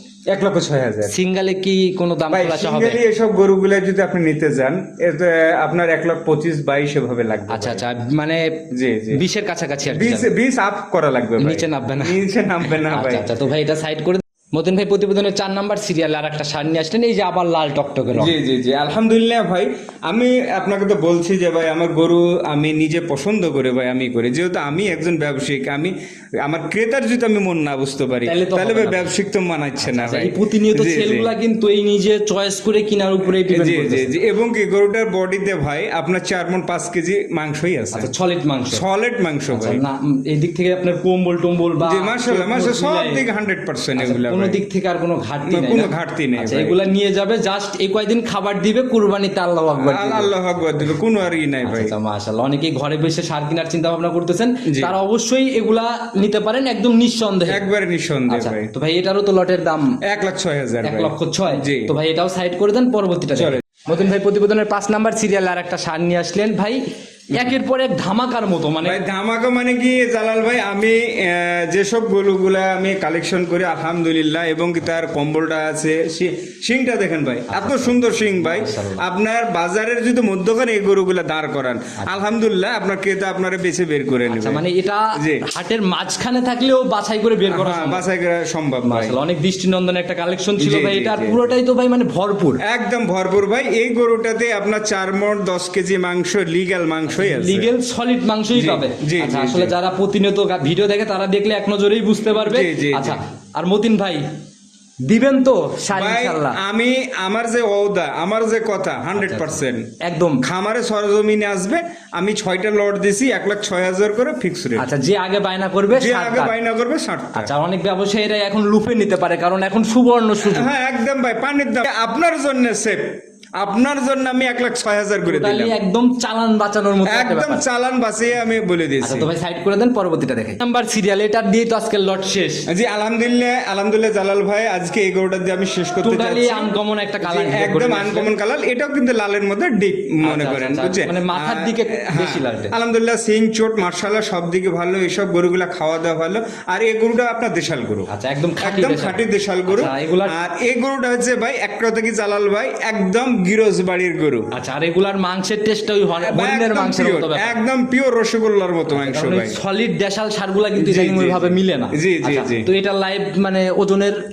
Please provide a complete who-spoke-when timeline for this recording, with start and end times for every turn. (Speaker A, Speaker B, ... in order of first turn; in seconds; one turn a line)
Speaker A: 0.3-1.1
Speaker B: 1.1-3.0
Speaker A: 2.3-7.8
Speaker B: 7.5-10.3
Speaker A: 8.7-9.2
Speaker A: 9.9-13.3
Speaker B: 11.4-18.4
Speaker A: 18.1-31.3
Speaker B: 28.2-29.1
Speaker B: 29.8-34.1
Speaker A: 33.4-38.1
Speaker B: 37.9-38.8
Speaker A: 38.7-39.8
Speaker B: 39.5-43.2
Speaker A: 41.8-44.6
Speaker B: 44.0-50.9
Speaker A: 45.5-46.8
Speaker A: 49.8-51.9
Speaker B: 51.6-57.6
Speaker A: 54.6-55.0
Speaker A: 57.5-58.7
Speaker B: 58.3-60.0
Speaker A: 60.0-61.9
Speaker B: 60.8-69.0
Speaker A: 63.3-63.6
Speaker A: 68.8-84.6
Speaker B: 77.5-79.0
Speaker B: 84.3-88.0
Speaker A: 85.2-85.4
Speaker A: 87.5-89.2
Speaker B: 88.9-92.6
Speaker A: 90.6-91.5
Speaker A: 92.6-97.7
Speaker B: 97.1-104.2
Speaker A: 98.5-99.7
Speaker A: 102.3-103.2
Speaker B: 105.0-106.6
Speaker A: 105.9-109.9
Speaker B: 109.2-110.4
Speaker A: 110.4-114.9
Speaker B: 114.8-116.5
Speaker A: 115.9-117.5
Speaker B: 117.3-120.7
Speaker A: 120.4-123.0
Speaker A: 123.6-125.8
Speaker B: 125.2-127.6
Speaker A: 127.1-129.3
Speaker B: 129.0-132.7
Speaker A: 132.7-148.1
Speaker B: 136.0-138.3
Speaker B: 140.2-142.7
Speaker B: 148.1-150.4
Speaker A: 148.6-154.5
Speaker B: 154.5-157.6
Speaker A: 156.2-159.6
Speaker B: 158.9-164.2
Speaker A: 160.8-162.7